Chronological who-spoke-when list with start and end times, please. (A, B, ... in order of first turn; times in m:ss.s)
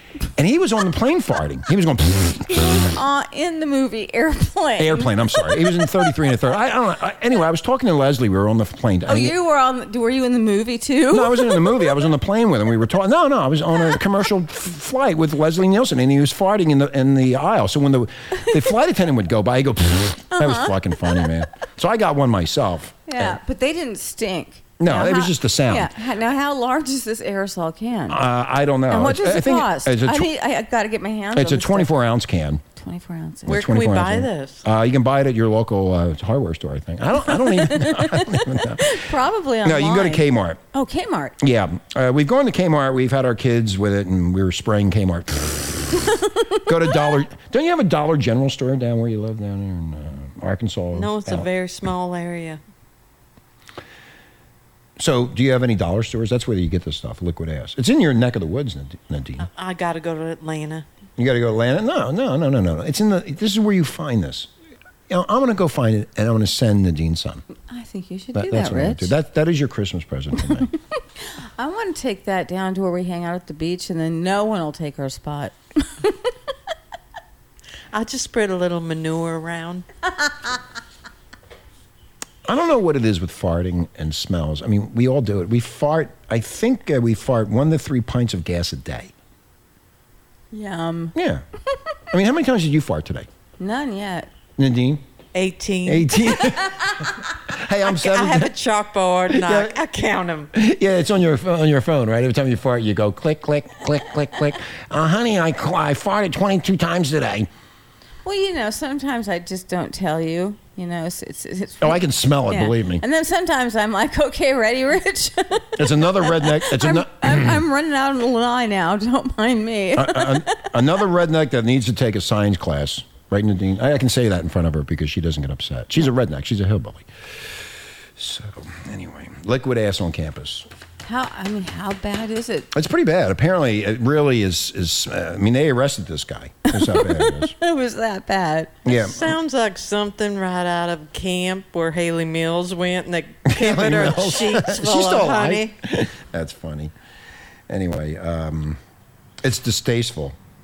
0:00.3-0:02.9 A
0:02.9-0:05.9 B
0:04.8-0:09.4 A
0:09.1-0:12.0 B
0:11.1-0:23.4 A
0:20.3-0:20.7 B
0:23.1-0:28.2 B
0:24.8-0:25.9 A
0:28.1-0:30.3 A
0:28.9-0:31.9 B
0:31.3-0:32.6 A
0:32.8-0:33.5 B
0:33.4-0:39.1 A
0:33.5-0:34.6 C
0:37.2-0:41.4 B
0:39.6-0:40.6 A
0:41.4-0:46.0 A
0:46.6-0:51.5 A
0:50.9-0:52.6 C
0:55.0-0:59.5 A
0:59.4-1:00.8 C
1:01.2-1:04.5 A
1:05.1-1:07.4 A
1:07.7-1:09.1 B
1:08.3-1:10.7 A
1:11.6-1:16.3 B
1:17.9-1:19.8 C
1:22.4-1:29.1 A
1:30.5-1:31.1 B
1:31.1-1:31.4 A
1:32.1-1:33.3 A
1:33.6-1:34.3 B
1:34.6-1:35.0 A
1:35.3-1:36.4 C
1:35.8-1:38.5 A
1:36.6-1:36.9 B
1:37.8-1:40.5 C
1:39.3-1:39.7 A
1:40.5-1:47.5 A
1:48.2-2:00.7 B
1:51.8-1:53.0 A
1:55.8-1:57.6 A
1:59.9-2:07.1 A
2:08.2-2:10.7 A
2:11.0-2:12.7 B
2:12.7-2:17.5 A
2:16.7-2:18.8 B
2:18.8-2:19.4 A
2:18.9-2:25.7 C
2:23.4-2:26.9 A
2:27.7-2:28.8 A
2:29.4-2:30.4 A